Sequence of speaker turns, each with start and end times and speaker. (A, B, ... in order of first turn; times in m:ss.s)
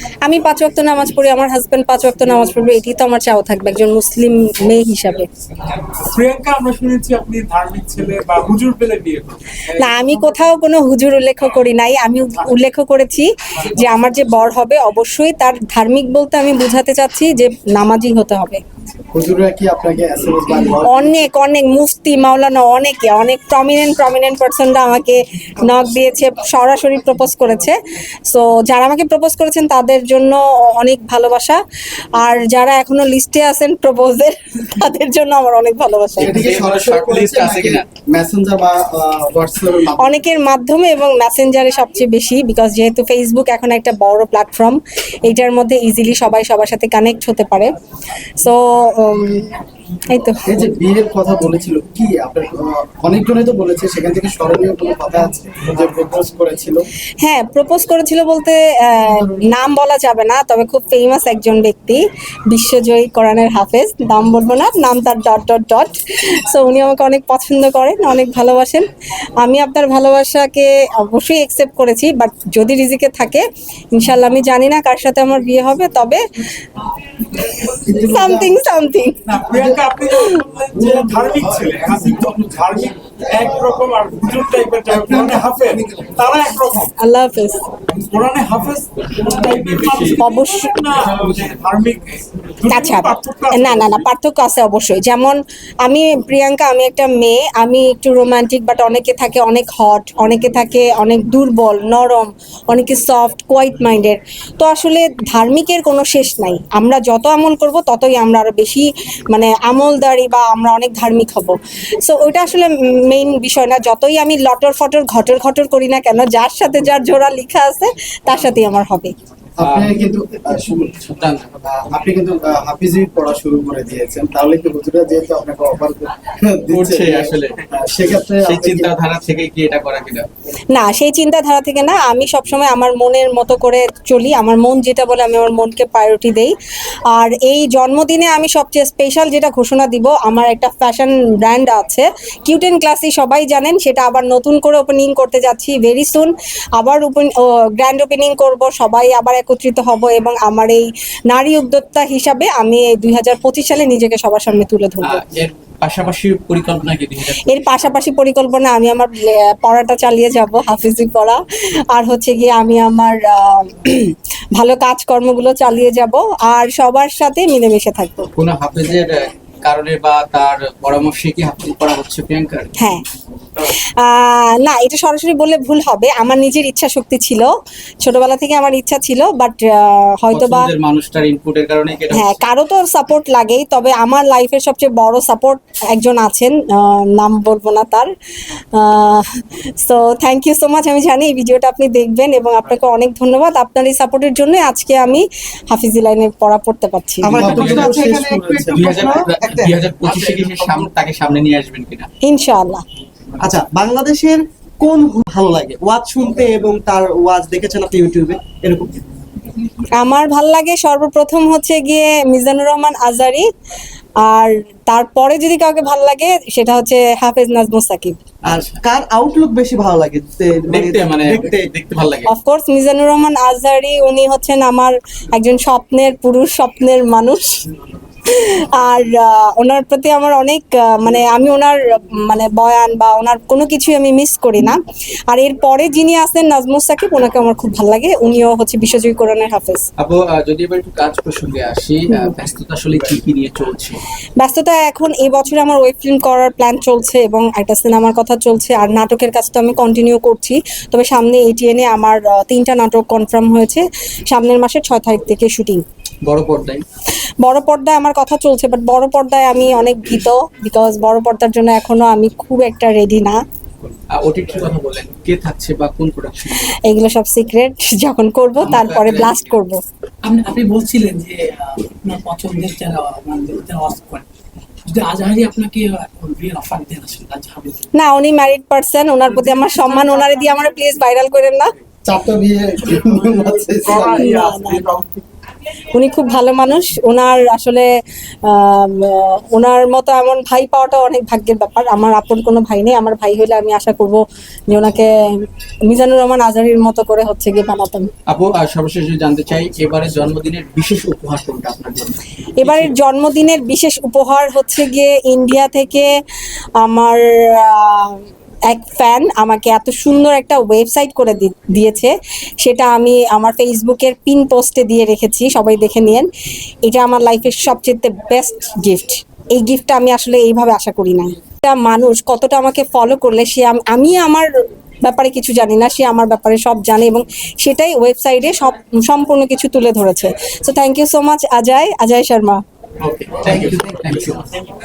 0:00.2-0:05.3 A
0:05.8-0:09.6 B
0:09.7-0:18.6 A
0:19.1-0:21.2 C
0:20.9-0:27.8 A
0:28.3-0:31.6 A
0:32.2-0:36.4 A
0:36.2-0:40.2 C
0:36.2-0:37.8 D
0:40.0-0:47.7 A
0:48.4-0:50.5 A
0:50.5-0:56.8 C
0:57.2-1:08.9 A
1:09.4-1:13.4 A
1:13.9-1:16.2 A
1:17.2-1:19.2 A
1:17.7-1:18.5 C
1:19.2-1:26.9 B
1:20.1-1:20.4 A
1:27.0-1:27.7 A
1:27.9-1:34.0 B
1:29.8-1:30.1 D
1:30.2-1:30.7 A
1:32.7-1:59.1 A
1:59.6-2:01.0 C
1:59.6-1:59.9 D
2:01.0-2:01.5 D
2:01.6-2:08.9 C
2:06.7-2:07.7 D
2:08.2-2:10.3 D
2:10.7-2:16.6 A
2:17.1-2:35.2 A
2:35.0-2:37.7 D
2:37.4-2:41.4 A
2:41.9-2:48.3 A
2:48.4-2:52.7 D
2:52.8-2:53.0 A
2:53.6-2:57.5 A
2:58.0-3:00.7 A
3:00.3-3:02.4 D
3:02.1-3:08.1 A
3:08.7-3:09.3 A
3:09.8-3:17.4 A
3:17.2-3:19.9 E
3:17.3-3:17.9 D
3:17.3-3:19.1 C
3:18.8-3:22.1 D
3:22.2-3:22.8 A
3:23.4-3:29.0 E
3:30.0-3:33.4 A
3:34.2-3:38.2 A
3:38.5-3:41.7 E
3:38.5-3:38.8 D
3:40.7-3:42.3 D
3:42.3-3:47.6 A
3:48.3-3:59.8 A
4:00.0-4:04.0 D
4:04.4-4:15.8 A
4:16.2-4:16.8 D
4:17.4-4:23.4 A
4:24.1-4:26.8 D
4:26.6-4:29.8 A
4:28.6-4:29.5 D
4:30.2-4:34.2 F
4:34.9-4:37.9 F
4:38.0-4:41.7 A
4:39.4-4:40.1 B
4:42.0-4:44.2 C
4:43.7-4:45.2 B
4:43.9-4:44.8 A
4:45.9-4:47.9 A
4:48.4-4:55.1 A
4:55.9-4:58.1 A
4:58.3-5:02.9 D
5:02.6-5:06.1 A
5:06.8-5:16.3 A
5:16.8-5:24.5 A
5:25.0-5:32.6 A
5:33.0-5:34.5 D